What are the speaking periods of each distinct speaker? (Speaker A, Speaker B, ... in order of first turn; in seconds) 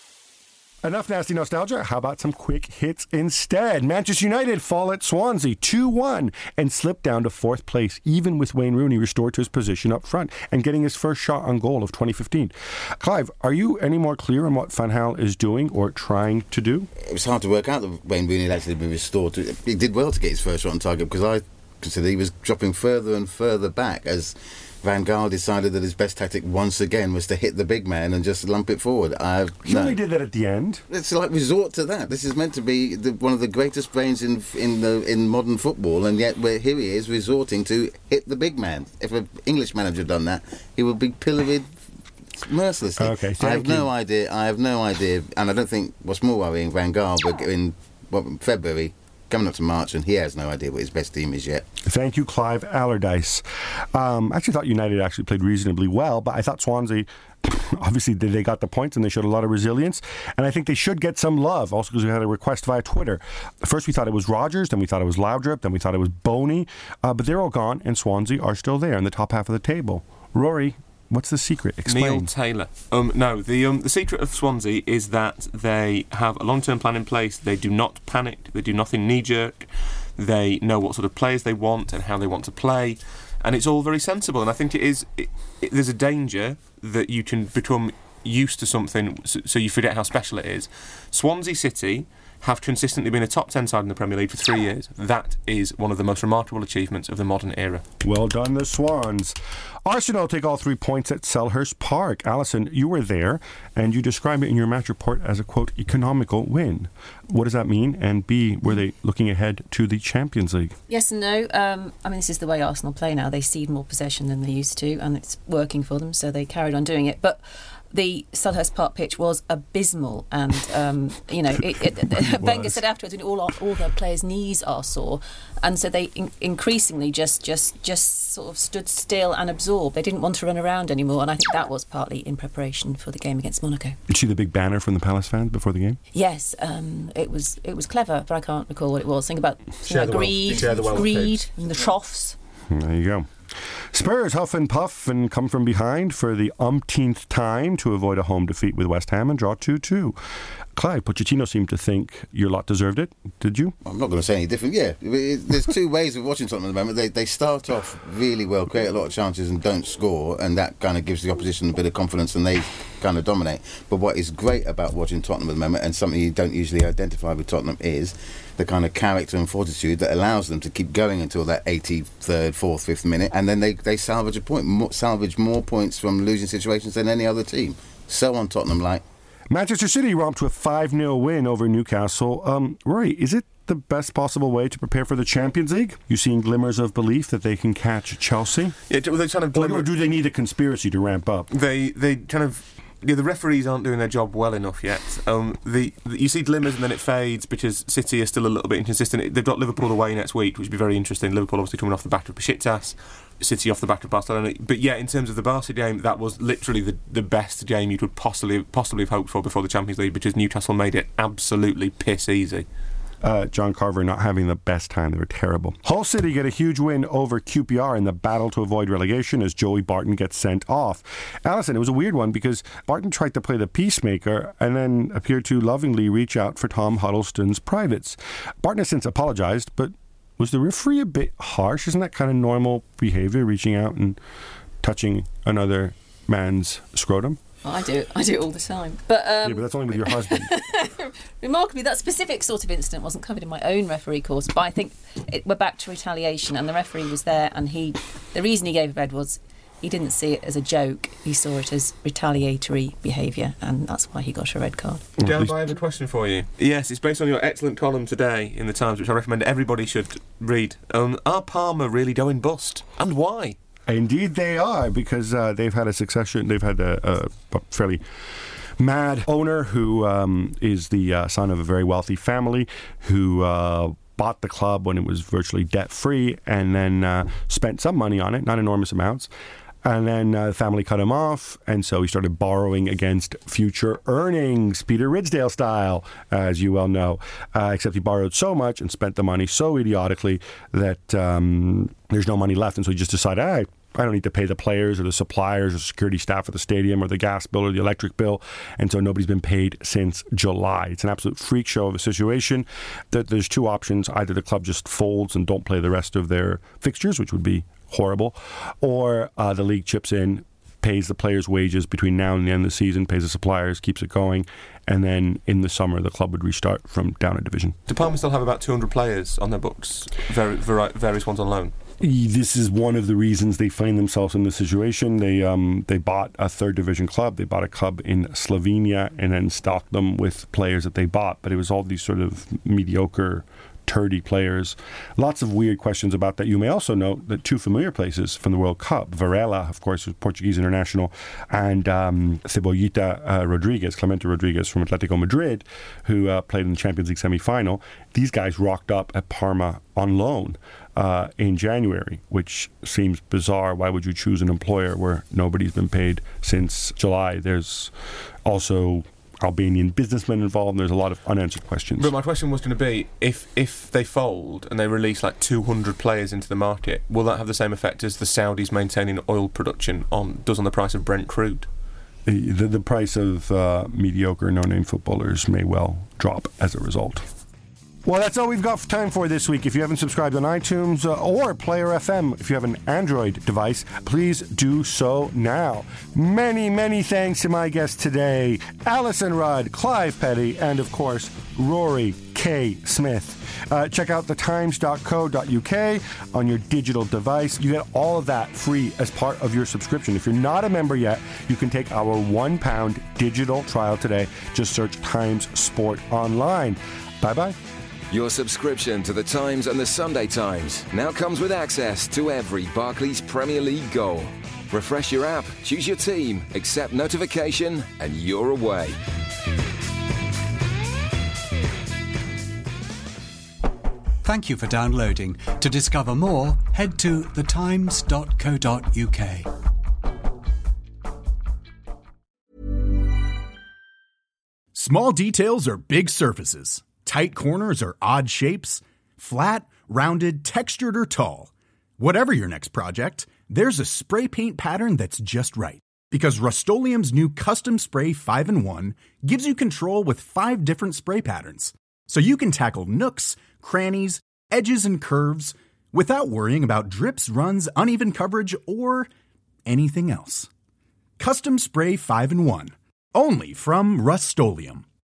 Speaker A: 0.8-16.9, 29.6-30.8, 43.0-43.9, 51.8-72.3, 98.0-110.8, 122.2-122.8, 134.1-136.0, 142.7-143.3, 143.9-150.2, 150.8-153.7, 179.5-188.8, 189.5-191.5, 213.2-234.2, 234.8-237.4, 239.4-240.5, 255.2-255.5, 263.9-268.0, 268.8-279.3, 279.8-317.8, 322.0-357.9, 358.4-362.1, 372.2-377.2, 378.0-407.6
Speaker B: 17.0-30.0, 30.9-41.7, 42.4-51.6, 140.4-141.1, 153.8-179.0
Speaker C: 71.8-97.8, 139.8-141.4, 188.9-189.9, 191.5-212.7, 255.2-263.6, 317.9-321.7, 362.0-371.7
Speaker D: 110.9-117.4, 117.9-134.0, 136.1-142.3, 237.6-255.1
Speaker E: 408.1-419.0
Speaker F: 424.2-429.5
Speaker G: 434.7-459.1, 459.6-460.5, 461.2-464.8